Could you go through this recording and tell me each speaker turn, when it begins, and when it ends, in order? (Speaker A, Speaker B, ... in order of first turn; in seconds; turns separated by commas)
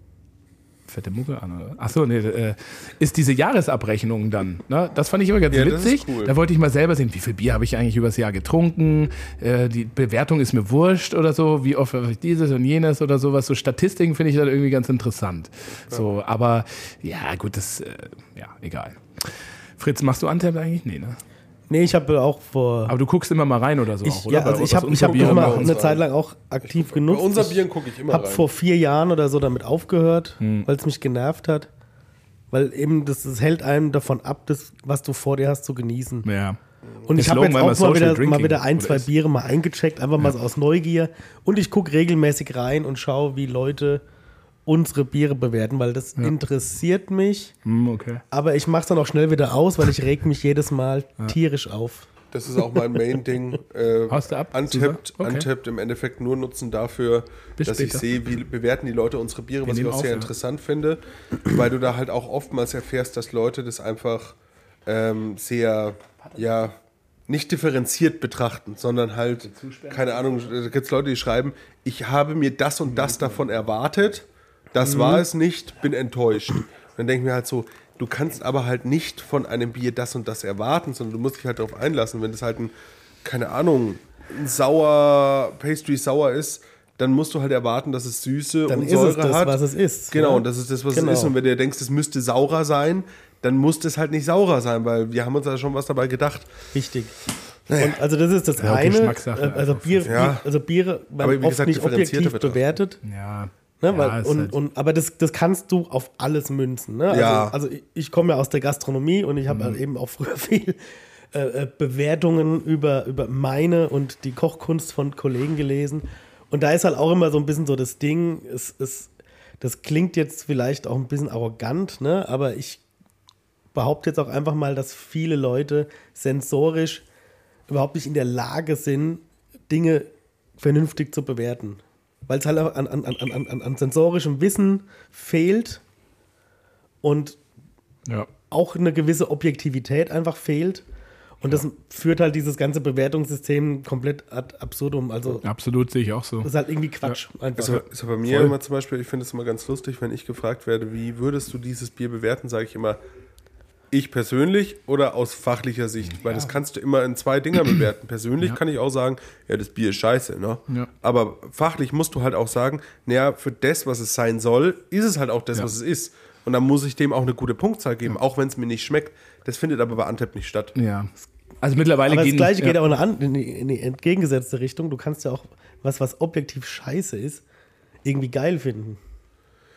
Speaker A: 0.9-19.3, Speaker B: 5.5-6.4, Speaker A: 19.8-21.2, Speaker C: 21.7-22.9, Speaker A: 22.9-25.8, Speaker C: 24.0-31.7, Speaker B: 24.9-26.0, Speaker B: 26.7-28.5, Speaker A: 30.4-30.7, Speaker C: 32.5-36.3, Speaker A: 36.2-36.6, Speaker C: 37.0-44.0, Speaker A: 37.2-39.1, Speaker C: 44.7-47.5, Speaker A: 47.6-48.2, Speaker C: 48.3-52.1, Speaker B: 52.3-64.3, Speaker A: 54.1-55.5, Speaker A: 57.6-58.1, Speaker A: 59.7-60.3, Speaker B: 64.9-66.8, Speaker B: 67.3-82.7, Speaker A: 69.5-70.5, Speaker C: 74.8-75.2, Speaker B: 83.2-89.6, Speaker C: 88.7-91.3, Speaker B: 90.1-96.5, Speaker C: 96.7-97.1, Speaker B: 97.7-98.0, Speaker C: 97.8-103.0, Speaker A: 98.6-100.3, Speaker B: 100.1-100.4, Speaker B: 101.2-102.7, Speaker A: 103.0-104.5, Speaker C: 103.8-110.8, Speaker B: 107.1-107.5, Speaker A: 109.5-109.8, Speaker C: 111.3-122.8, Speaker C: 123.7-127.0, Speaker C: 127.7-135.8, Speaker C: 137.0-137.4, Speaker C: 138.5-140.8, Speaker C: 141.4-145.4, Speaker A: 145.4-146.5, Speaker C: 146.4-147.8, Speaker B: 147.6-153.0, Speaker A: 148.3-148.5, Speaker B: 153.9-170.7, Speaker A: 170.8-172.8, Speaker C: 172.1-177.4, Speaker C: 178.1-179.0